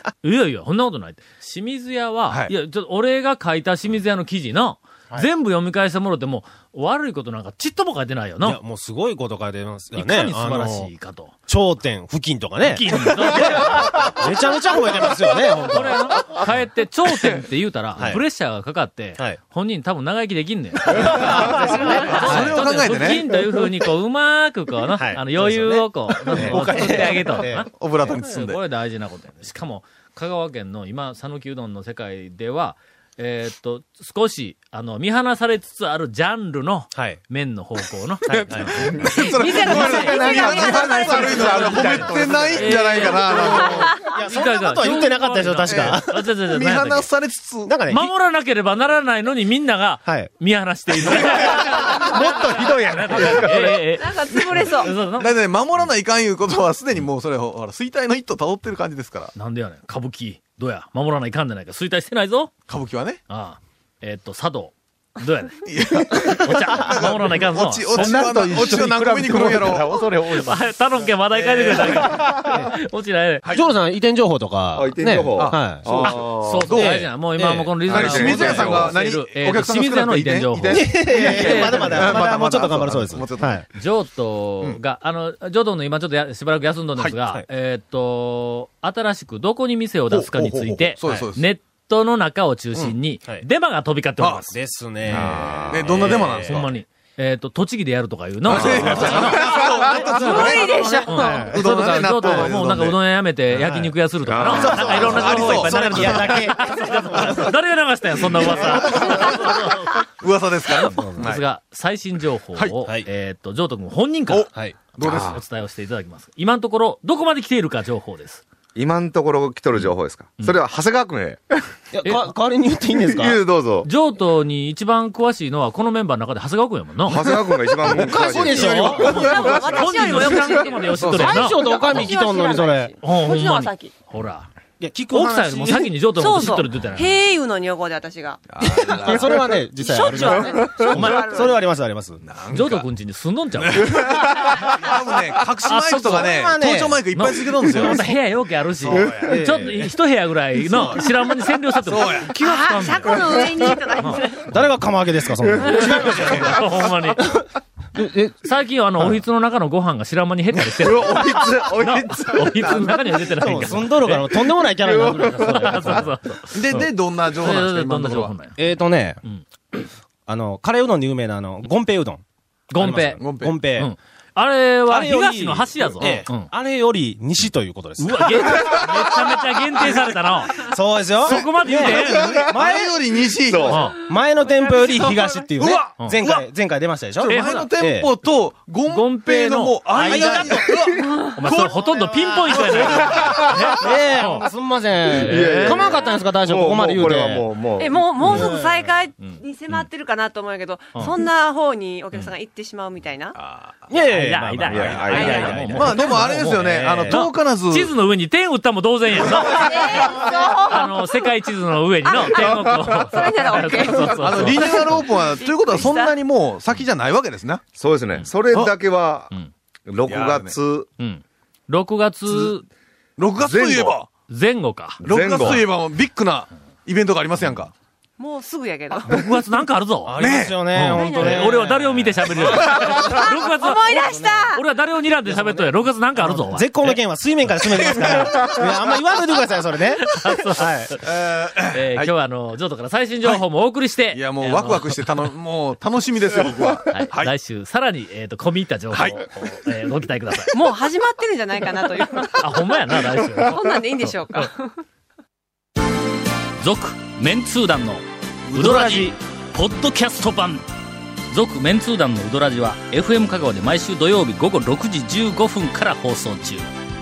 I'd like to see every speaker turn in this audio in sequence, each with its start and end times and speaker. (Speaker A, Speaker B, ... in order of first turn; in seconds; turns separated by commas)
Speaker A: 0.2-8.6, Speaker B: 2.3-2.5, Speaker C: 8.4-10.9, Speaker A: 9.9-11.3, Speaker C: 11.5-16.2, Speaker A: 12.6-13.8, Speaker A: 15.7-47.1, Speaker C: 18.0-18.2, Speaker C: 21.1-22.6, Speaker B: 22.1-23.4, Speaker C: 24.9-27.7, Speaker B: 27.7-28.6, Speaker C: 36.9-37.2, Speaker B: 38.3-44.0, Speaker C: 38.3-39.0, Speaker D: 39.3-41.7, Speaker E: 39.4-42.8, Speaker C: 44.0-46.3, Speaker B: 45.7-47.8, Speaker C: 47.7-48.1, Speaker A: 47.9-55.3, Speaker C: 50.0-50.3, Speaker B: 51.1-51.4, Speaker E: 51.6-53.9, Speaker D: 53.9-54.9, Speaker B: 54.4-59.4, Speaker A: 59.4-62.5, Speaker B: 62.7-63.2, Speaker A: 63.3-68.3, Speaker B: 65.7-70.0, Speaker E: 67.9-70.6, Speaker A: 70.2-73.5, Speaker B: 71.5-72.3, Speaker C: 72.4-72.7, Speaker C: 73.5-78.7, Speaker F: 74.8-76.8, Speaker B: 75.4-77.1, Speaker A: 76.0-82.3, Speaker F: 77.9-78.9, Speaker B: 77.9-83.6, Speaker C: 80.7-83.7, Speaker A: 83.7-94.5, Speaker C: 87.1-87.5, Speaker B: 90.1-91.4, Speaker B: 94.2-94.5, Speaker C: 94.5-96.7, Speaker F: 95.1-96.2, Speaker B: 95.1-96.7, Speaker A: 96.0-99.6, Speaker B: 98.5-103.0, Speaker C: 98.9-101.6, Speaker D: 100.2-101.2, Speaker A: 100.2-110.1, Speaker C: 102.3-102.6, Speaker C: 103.5-107.5, Speaker F: 104.3-105.8, Speaker B: 104.9-107.5, Speaker B: 108.2-111.4, Speaker A: 111.0-118.4, Speaker B: 114.3-115.4, Speaker C: 114.5-114.8, Speaker F: 115.0-115.4, Speaker F: 118.8-121.5, Speaker C: 121.9-123.4, Speaker F: 123.1-123.9, Speaker A: 123.8-127.2, Speaker F: 127.0-129.7, Speaker C: 127.8-129.4, Speaker A: 128.8-132.0, Speaker D: 129.1-131.0, Speaker C: 131.0-133.0, Speaker D: 131.6-133.9, Speaker A: 133.0-134.5, Speaker C: 134.8-135.9, Speaker A: 135.1-137.2, Speaker D: 136.2-138.6, Speaker B: 138.5-139.5, Speaker C: 138.6-142.2, Speaker D: 139.7-141.6, Speaker A: 140.9-141.2, Speaker B: 142.2-142.9, Speaker A: 142.5-144.1, Speaker B: 143.6-148.1, Speaker A: 145.7-146.3, Speaker C: 146.0-147.0, Speaker A: 147.1-153.2, Speaker B: 148.8-149.4, Speaker C: 149.2-149.9, Speaker B: 150.7-151.0, Speaker B: 151.8-152.4, Speaker D: 152.3-154.5, Speaker A: 154.0-154.6, Speaker C: 154.5-157.4, Speaker A: 155.7-157.4, Speaker C: 157.9-158.4, Speaker A: 158.4-168.6, Speaker B: 160.8-162.9, Speaker F: 160.9-162.2, Speaker C: 163.3-166.1, Speaker B: 166.5-168.3, Speaker C: 168.6-169.2, Speaker C: 170.3-172.2, Speaker A: 172.7-176.5, Speaker C: 172.8-173.9, Speaker B: 173.2-173.6, Speaker C: 174.9-178.9, Speaker A: 178.0-180.7, Speaker C: 180.6-182.9, Speaker A: 181.2-182.4, Speaker B: 181.3-183.8, Speaker F: 183.5-183.8, Speaker A: 183.7-184.0, Speaker C: 184.1-188.1, Speaker B: 185.6-185.9, Speaker A: 185.9-186.4, Speaker A: 187.2-187.7, Speaker B: 187.3-191.9, Speaker A: 188.9-190.6, Speaker C: 190.0-190.7, Speaker A: 191.4-194.5, Speaker C: 192.1-193.0, Speaker B: 192.5-193.2, Speaker C: 193.8-197.5, Speaker A: 195.2-196.0, Speaker F: 195.2-198.0, Speaker D: 197.8-203.4, Speaker A: 198.2-198.6, Speaker A: 199.2-199.8, Speaker B: 203.3-203.9, Speaker C: 203.9-207.2, Speaker A: 204.1-215.0, Speaker F: 204.7-205.6, Speaker B: 204.8-207.9, Speaker D: 205.1-205.7, Speaker D: 209.5-211.1, Speaker D: 212.0-216.2, Speaker B: 214.1-217.6, Speaker F: 217.7-219.3, Speaker F: 219.9-220.9, Speaker B: 220.1-220.6, Speaker A: 221.0-222.7, Speaker B: 223.2-224.1, Speaker F: 223.4-223.9, Speaker A: 224.3-225.0, Speaker F: 225.0-225.7, Speaker B: 225.0-227.7, Speaker D: 228.2-229.2, Speaker A: 229.1-230.2, Speaker C: 230.1-233.4, Speaker B: 230.2-230.6, Speaker A: 230.7-234.0, Speaker D: 230.9-231.7, Speaker D: 232.8-234.6, Speaker C: 234.0-234.4, Speaker A: 234.5-237.0, Speaker C: 235.2-241.0, Speaker B: 237.9-238.5, Speaker A: 240.0-241.0, Speaker B: 241.0-242.1, Speaker A: 241.6-245.0, Speaker B: 244.1-247.3, Speaker A: 246.9-250.6, Speaker B: 248.9-249.3, Speaker D: 250.5-252.6, Speaker A: 252.4-253.6, Speaker D: 253.4-254.8, Speaker A: 256.6-260.7, Speaker B: 258.5-258.9, Speaker C: 258.5-259.1, Speaker A: 261.3-266.7